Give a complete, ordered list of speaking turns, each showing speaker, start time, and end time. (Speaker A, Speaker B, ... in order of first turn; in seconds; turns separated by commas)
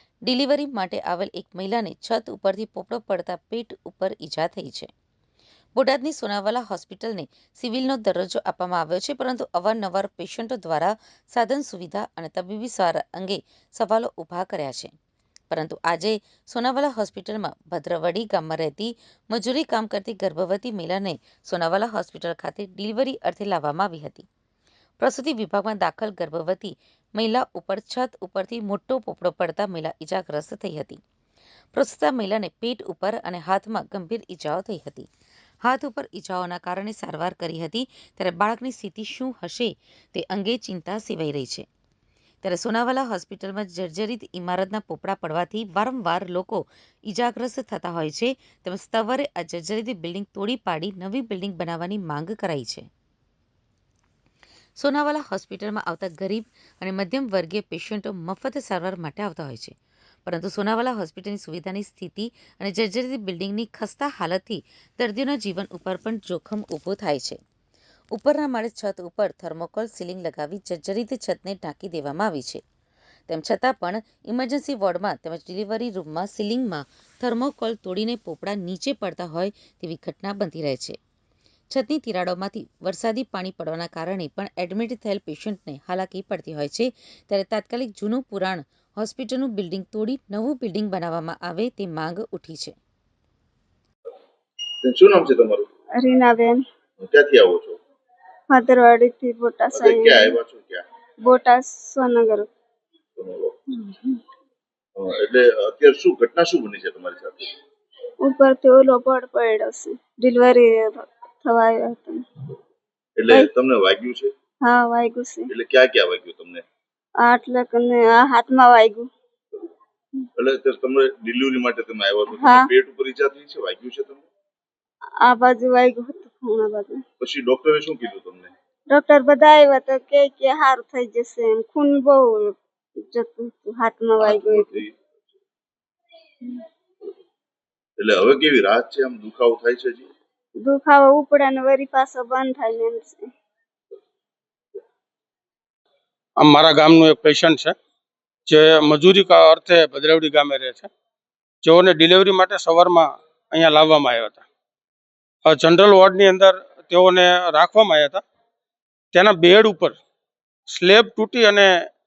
Speaker A: 0.2-4.9, Speaker A: 5.7-14.9, Speaker A: 15.5-24.3, Speaker A: 25.0-31.0, Speaker A: 31.7-35.1, Speaker A: 35.6-41.6, Speaker A: 42.4-52.9, Speaker A: 54.8-59.7, Speaker A: 60.2-67.4, Speaker A: 68.1-72.6, Speaker A: 73.3-81.0, Speaker A: 81.7-92.8, Speaker B: 94.8-95.7, Speaker C: 96.0-96.6, Speaker B: 97.0-97.8, Speaker C: 98.5-100.3, Speaker B: 99.7-100.8, Speaker C: 101.2-102.5, Speaker B: 103.2-103.6, Speaker C: 103.8-104.2, Speaker B: 105.0-107.5, Speaker C: 108.2-112.2, Speaker B: 113.2-114.3, Speaker C: 114.6-115.5, Speaker B: 115.5-116.6, Speaker C: 117.2-119.1, Speaker B: 120.4-124.2, Speaker C: 122.3-122.7, Speaker C: 125.2-127.0, Speaker B: 127.2-128.5, Speaker C: 128.9-134.7, Speaker B: 134.2-135.0, Speaker B: 138.0-140.1, Speaker C: 140.6-143.3, Speaker D: 146.4-147.7, Speaker D: 148.4-150.9, Speaker D: 151.6-154.4, Speaker D: 155.4-158.2, Speaker D: 159.1-160.0, Speaker D: 160.7-161.7